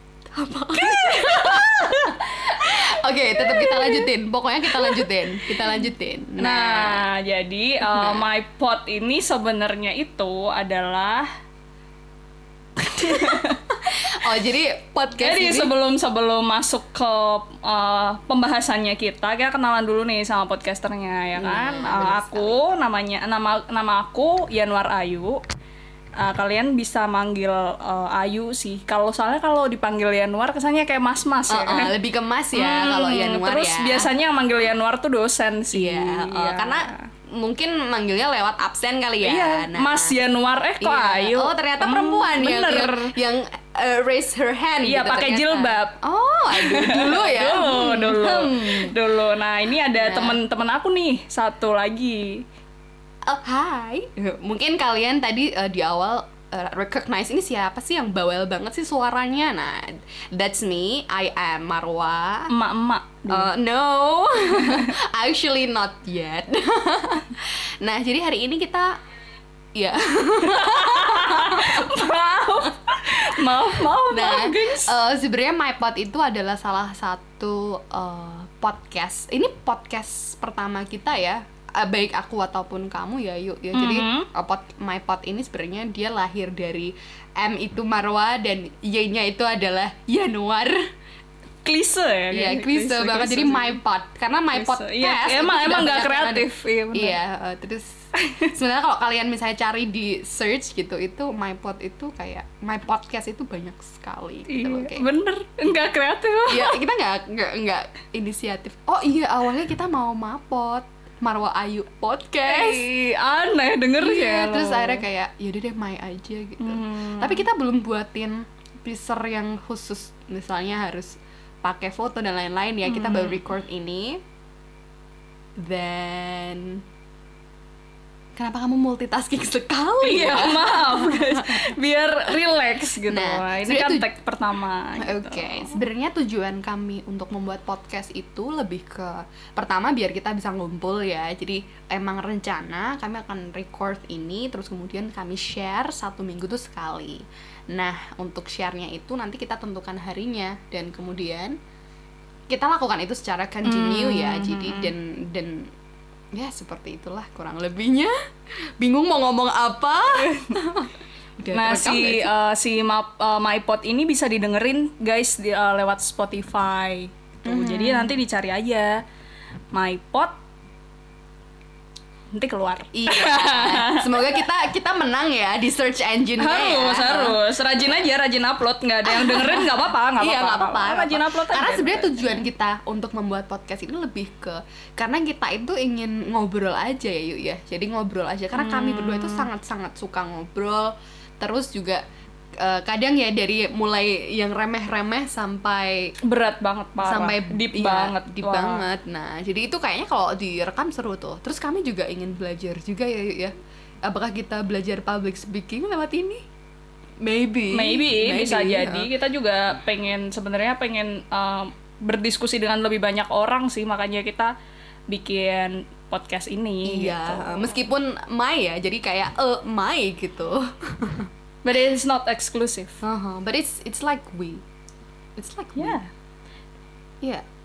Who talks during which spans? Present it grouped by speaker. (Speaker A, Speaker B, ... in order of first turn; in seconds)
Speaker A: 0.3-7.0, 7.8-8.3, 13.0-15.7, 21.4-22.7, 31.5-34.1, 35.7-40.1, 40.8-49.0, 49.9-50.4, 53.3-62.5, 63.3-68.9, 69.7-72.1, 74.1-90.8, 92.3-97.9, 98.4-105.1, 106.5-112.9, 114.0-124.2, 125.6-126.8, 128.3-131.7, 133.1-134.1, 135.0-151.6, 152.5-155.7, 156.3-158.1, 158.8-162.3, 167.4-168.2, 172.9-177.4, 179.0-192.0, 192.6-196.1, 197.0-206.4, 207.2-209.1, 216.8-221.3, 223.0-224.6, 225.4-226.0
Speaker B: 0.8-2.1, 3.4-4.1, 4.7-5.7, 6.4-11.3, 12.9-13.6, 15.2-25.4, 26.2-31.9, 32.5-37.0, 39.2-43.1, 44.8-46.0, 46.5-52.4, 62.5-63.5, 64.5-64.9, 70.4-74.9, 83.7-84.3, 91.6-93.8, 94.5-97.2, 104.5-106.8, 112.5-115.0, 116.6-117.5, 122.8-123.4, 130.0-135.8, 153.6-154.9, 160.2-160.5, 161.5-169.0, 169.7-170.3, 172.3-174.4, 176.4-182.4, 188.5-189.5, 196.2-198.8, 207.7-214.5, 215.1-217.8, 221.6-223.0, 225.8-226.1